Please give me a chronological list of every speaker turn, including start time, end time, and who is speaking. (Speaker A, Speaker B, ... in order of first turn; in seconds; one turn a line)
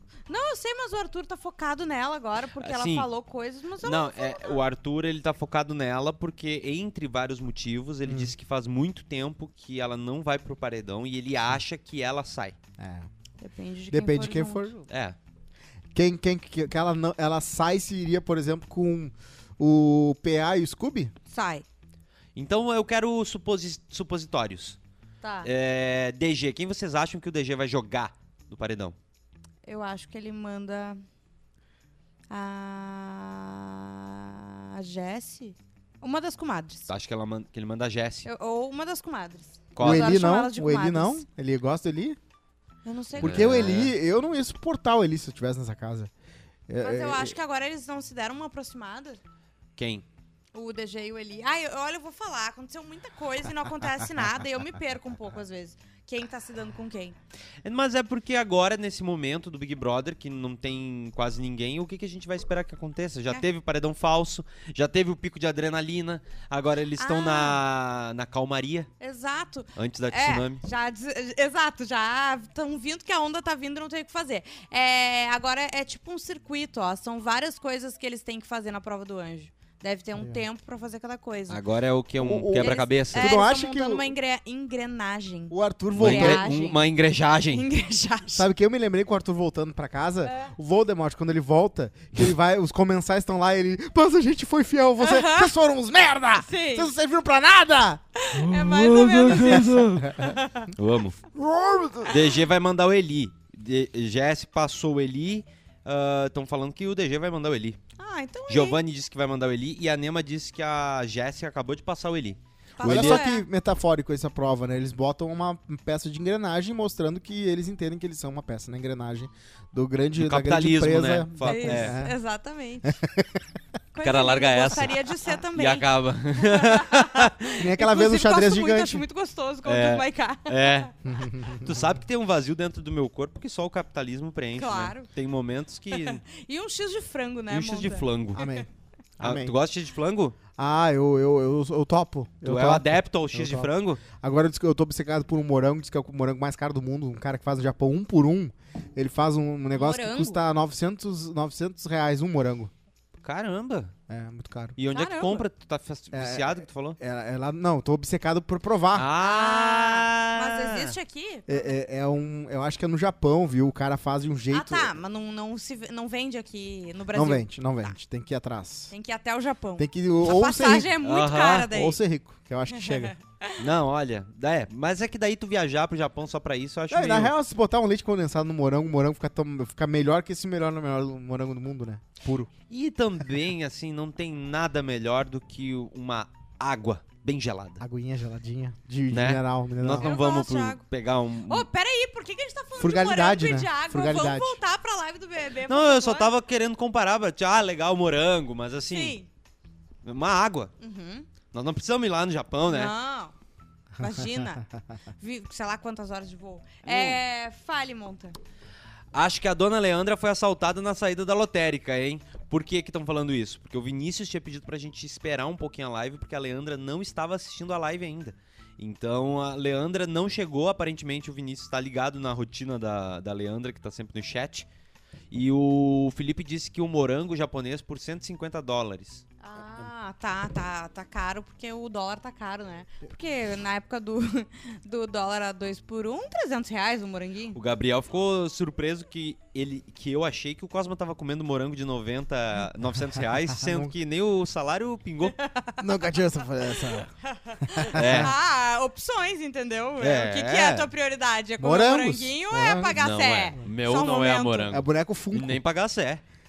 Speaker A: 0.3-4.6
Speaker B: 2.6-3.1
Speaker B: 3.8-12.6
Speaker C: 8.1-8.3
Speaker C: 12.8-13.1
Speaker A: 13.4-14.8
Speaker C: 13.9-14.8
Speaker B: 14.9-15.2
Speaker C: 15.9-21.1
Speaker A: 21.3-21.7
Speaker B: 22.4-24.8
Speaker A: 25.2-25.5
Speaker B: 25.4-29.0
Speaker A: 29.7-31.0
Speaker A: 32.3-36.9
Speaker B: 36.9-38.3
Speaker A: 38.2-41.2
Speaker B: 39.8-40.1
Speaker C: 39.8-42.2
Speaker A: 42.8-43.5
Speaker B: 43.2-44.0
Speaker C: 43.2-46.1
Speaker C: 46.7-47.4
Speaker A: 46.8-49.2
Speaker B: 49.8-50.0
Speaker A: 50.5-57.2
Speaker B: 57.6-68.9
Speaker A: 67.0-67.6
Speaker A: 69.0-81.6
Speaker B: 69.8-70.6
Speaker B: 81.5-83.4
Speaker C: 82.2-84.1
Speaker A: 82.5-86.8
Speaker C: 85.5-86.5
Speaker B: 86.0-87.7
Speaker A: 87.5-88.5
Speaker C: 88.3-98.0
Speaker A: 90.2-90.5
Speaker A: 95.0-95.5
Speaker A: 96.4-96.9
Speaker A: 98.2-100.7
Speaker B: 98.4-100.1
Speaker C: 99.2-100.3
Speaker B: 100.7-101.2
Speaker C: 101.3-102.2
Speaker B: 102.1-107.8
Speaker A: 108.0-108.8
Speaker B: 108.5-113.3
Speaker A: 112.8-113.5
Speaker C: 112.8-122.2
Speaker B: 120.2-122.0
Speaker A: 121.4-123.0
Speaker C: 122.8-123.4
Speaker A: 123.9-130.9
Speaker B: 124.0-127.5
Speaker C: 127.6-129.0
Speaker B: 129.7-130.9
Speaker C: 131.0-132.0
Speaker B: 131.6-136.2
Speaker A: 134.6-135.1
Speaker A: 135.9-138.7
Speaker B: 137.5-138.4
Speaker C: 138.3-138.7
Speaker C: 139.2-139.5
Speaker B: 139.2-140.4
Speaker C: 140.6-152.7
Speaker B: 142.4-144.0
Speaker A: 149.7-150.4
Speaker B: 153.2-153.9
Speaker C: 154.1-154.8
Speaker B: 154.8-157.0
Speaker A: 154.9-155.5
Speaker C: 156.1-159.1
Speaker B: 158.9-160.9
Speaker A: 159.2-161.7
Speaker C: 161.5-164.9
Speaker A: 164.5-167.9
Speaker C: 167.1-168.9
Speaker A: 168.9-172.0
Speaker C: 169.8-170.9
Speaker B: 171.0-171.7
Speaker C: 171.6-173.1
Speaker A: 172.7-173.6
Speaker B: 173.6-177.3
Speaker C: 176.9-182.5
Speaker B: 182.7-187.8
Speaker C: 187.8-190.1
Speaker B: 189.1-191.7
Speaker A: 189.9-190.8
Speaker A: 191.5-196.3
Speaker C: 192.8-194.6
Speaker B: 195.7-199.2
Speaker A: 198.9-199.3
Speaker B: 200.0-200.7
Speaker A: 200.8-201.3
Speaker B: 201.5-202.9
Speaker A: 202.7-203.3
Speaker C: 204.0-204.6
Speaker A: 204.0-204.7
Speaker A: 205.2-208.4
Speaker B: 206.8-207.2
Speaker B: 209.1-224.7
Speaker B: 225.3-229.2
Speaker A: 229.4-237.6
Speaker B: 237.5-245.4
Speaker C: 243.5-243.9
Speaker A: 245.4-246.2
Speaker C: 245.8-247.1
Speaker A: 246.8-254.8
Speaker C: 247.7-248.3
Speaker B: 247.9-248.3
Speaker B: 250.0-250.9
Speaker C: 251.6-253.0
Speaker B: 253.0-256.2
Speaker C: 254.7-255.6